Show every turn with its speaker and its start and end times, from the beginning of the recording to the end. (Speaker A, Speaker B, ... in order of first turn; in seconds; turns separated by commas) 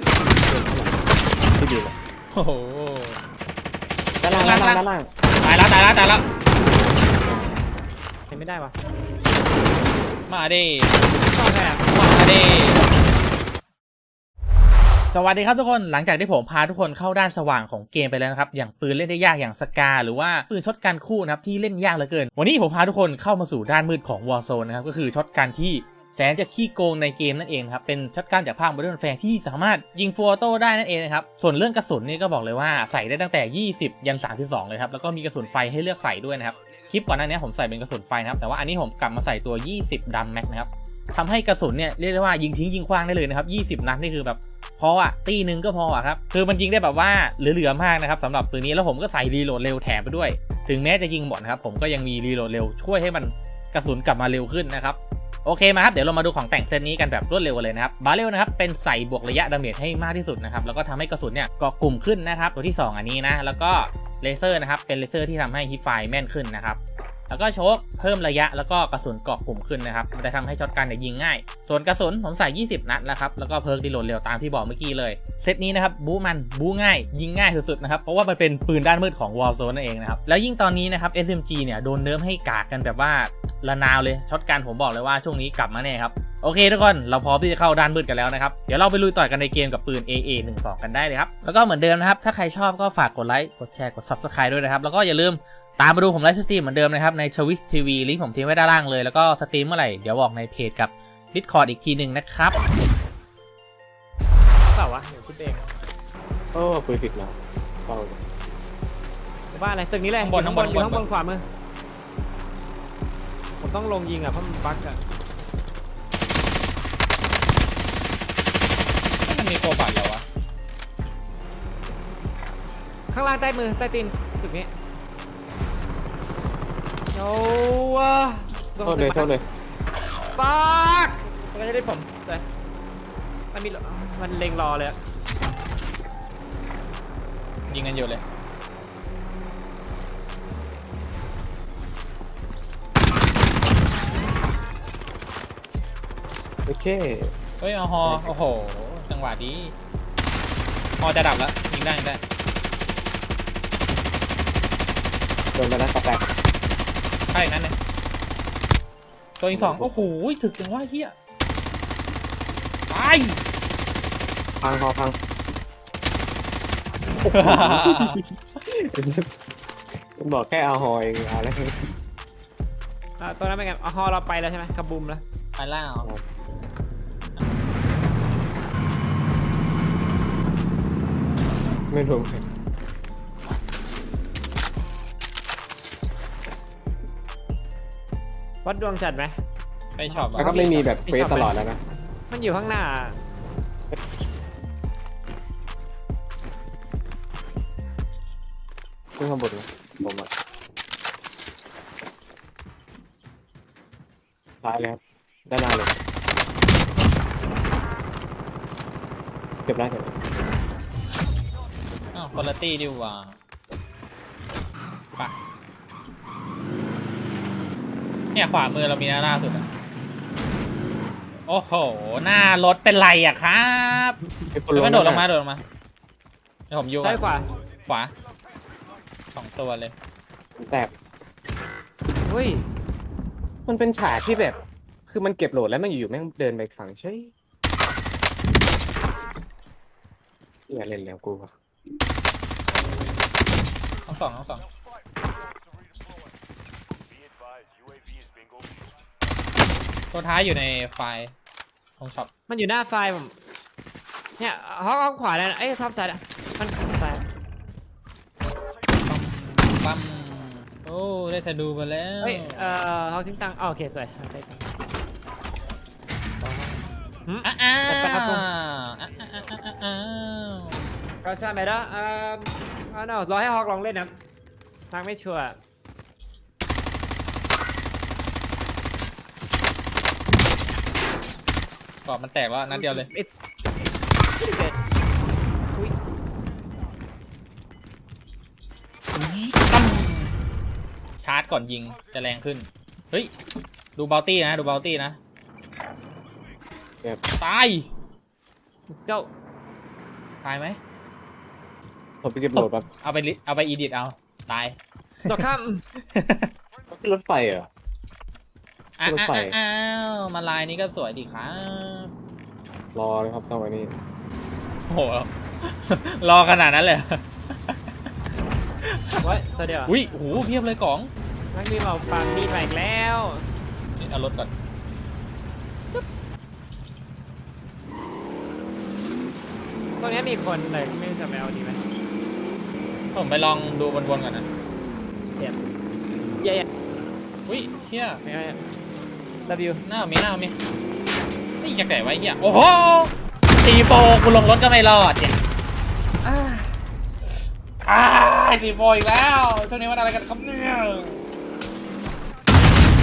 Speaker A: 0.3-1.0, Speaker A: 1.5-1.9, Speaker B: 2.3-3.2, Speaker A: 4.2-5.1, Speaker B: 4.3-4.8, Speaker B: 5.4-6.3, Speaker C: 8.3-8.8, Speaker B: 10.3-10.9, Speaker C: 11.2-11.9, Speaker B: 11.9-12.8, Speaker B: 15.1-102.6, Speaker C: 104.7-105.7, Speaker A: 106.5-108.2, Speaker C: 109.5-111.4, Speaker B: 110.2-111.1, Speaker C: 113.6-115.0, Speaker B: 119.2-120.2, Speaker C: 123.1-124.7, Speaker C: 127.1-129.3, Speaker A: 128.8-129.4, Speaker C: 130.3-132.5, Speaker C: 133.5-135.0, Speaker B: 137.7-138.2, Speaker A: 146.7-147.3, Speaker B: 147.6-149.8, Speaker A: 148.0-148.3, Speaker B: 151.0-152.2, Speaker A: 155.6-156.3, Speaker B: 157.3-157.8, Speaker B: 159.4-161.1, Speaker A: 159.5-159.9, Speaker B: 162.9-163.4, Speaker A: 164.6-165.2, Speaker A: 167.2-169.3, Speaker B: 167.3-168.2, Speaker A: 170.2-171.8, Speaker C: 173.2-175.2, Speaker B: 175.6-176.1, Speaker A: 181.9-182.4, Speaker C: 188.7-189.3, Speaker B: 190.0-190.6, Speaker C: 190.1-191.5, Speaker A: 190.4-191.8, Speaker C: 192.3-193.2, Speaker A: 199.2-200.3, Speaker A: 204.6-205.9, Speaker A: 209.7-210.2, Speaker B: 212.1-213.4, Speaker B: 218.3-219.7, Speaker B: 221.5-224.2, Speaker A: 224.5-225.3, Speaker B: 224.8-225.6, Speaker B: 226.7-227.3, Speaker C: 227.0-227.5, Speaker B: 227.8-228.1, Speaker B: 229.3-229.9, Speaker A: 230.6-230.9, Speaker C: 232.3-232.7, Speaker A: 233.7-237.3, Speaker A: 240.7-241.5, Speaker B: 244.1-244.6, Speaker B: 250.1-251.3, Speaker B: 252.0-252.3, Speaker C: 252.5-253.4, Speaker C: 254.4-257.2, Speaker B: 259.1-262.8, Speaker C: 262.2-264.6, Speaker C: 266.4-268.5, Speaker B: 267.4-270.9, Speaker C: 271.2-274.2, Speaker C: 274.9-275.6, Speaker B: 282.1-283.1, Speaker C: 282.6-283.4, Speaker C: 284.4-284.7, Speaker B: 289.6-290.3, Speaker B: 291.2-293.3, Speaker B: 294.0-295.2, Speaker B: 297.4-297.9, Speaker C: 298.9-299.3, Speaker B: 300.4-300.8, Speaker A: 302.2-302.9, Speaker B: 302.6-305.4, Speaker C: 305.3-305.8, Speaker B: 306.1-306.5, Speaker A: 306.9-307.7, Speaker B: 309.0-312.1, Speaker A: 309.1-309.6, Speaker A: 312.9-313.9, Speaker B: 314.9-317.8, Speaker B: 318.8-319.3, Speaker C: 319.2-319.9, Speaker B: 319.9-321.1, Speaker C: 321.5-323.5, Speaker B: 324.0-324.5, Speaker C: 330.0-331.8, Speaker B: 333.1-334.5, Speaker C: 335.4-335.6, Speaker C: 336.4-336.7, Speaker B: 337.5-338.2, Speaker C: 338.2-338.6, Speaker C: 339.5-339.8, Speaker B: 339.9-340.6, Speaker B: 341.6-345.4, Speaker B: 346.2-347.3, Speaker B: 347.9-351.2